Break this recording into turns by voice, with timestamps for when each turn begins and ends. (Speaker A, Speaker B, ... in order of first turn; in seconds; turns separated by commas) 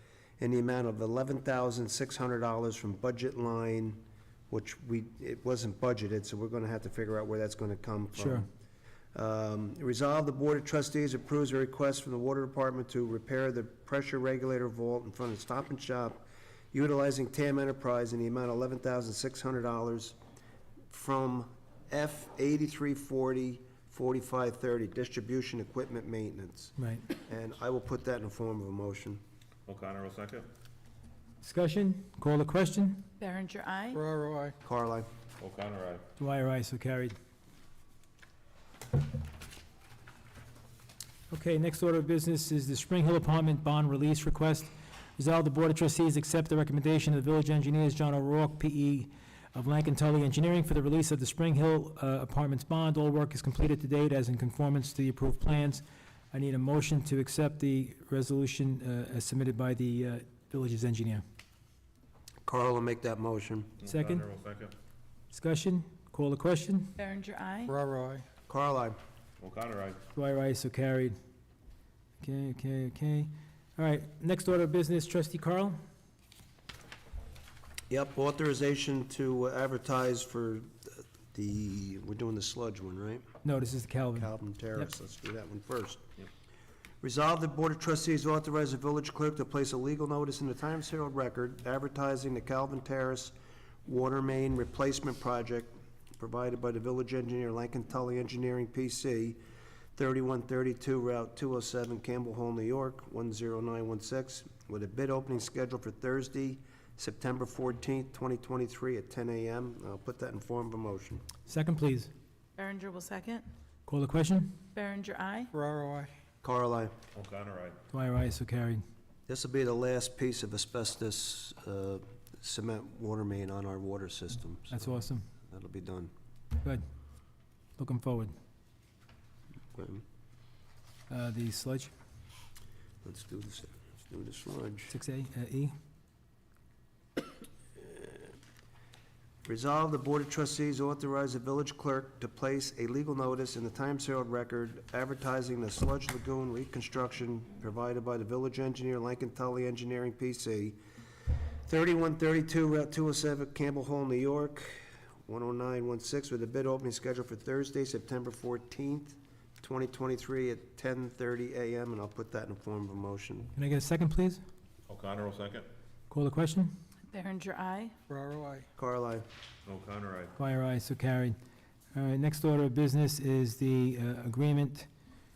Speaker A: 0.4-8.5, Speaker A: 9.1-16.2, Speaker A: 16.7-20.2, Speaker A: 20.9-29.2, Speaker B: 29.7-30.5, Speaker C: 31.4-33.0, Speaker D: 33.2-34.0, Speaker E: 33.9-34.5, Speaker A: 34.6-35.1, Speaker B: 35.4-36.1, Speaker C: 36.2-37.1, Speaker C: 41.3-44.7, Speaker C: 45.2-55.8, Speaker C: 56.3-61.2, Speaker A: 62.5-63.8, Speaker B: 63.8-64.8, Speaker C: 63.9-64.2, Speaker C: 65.3-66.8, Speaker D: 67.0-67.8, Speaker E: 67.7-68.2, Speaker A: 68.5-69.0, Speaker B: 69.4-70.0, Speaker C: 70.2-71.1, Speaker C: 72.2-73.3, Speaker C: 73.8-75.7, Speaker A: 77.9-83.2, Speaker C: 83.5-84.3, Speaker A: 84.2-86.0, Speaker A: 87.0-93.3, Speaker A: 93.8-99.4, Speaker A: 100.0-111.2, Speaker C: 111.5-112.1, Speaker D: 112.6-113.5, Speaker C: 113.9-114.5, Speaker D: 114.7-115.5, Speaker E: 115.5-116.1, Speaker A: 116.4-116.9, Speaker B: 117.1-117.8, Speaker C: 117.9-118.8, Speaker A: 119.3-124.9, Speaker C: 124.7-125.2, Speaker A: 125.5-126.1, Speaker C: 127.8-128.3, Speaker A: 129.7-130.0, Speaker C: 131.1-131.9, Speaker A: 133.0-134.9, Speaker C: 134.9-135.7, Speaker A: 139.4-150.8, Speaker A: 151.7-163.5, Speaker C: 163.6-164.4, Speaker B: 164.9-165.7, Speaker C: 166.1-166.7, Speaker D: 167.1-167.9, Speaker E: 168.1-168.7, Speaker A: 168.8-169.2, Speaker B: 169.7-170.3, Speaker C: 170.4-171.3, Speaker C: 172.0-174.8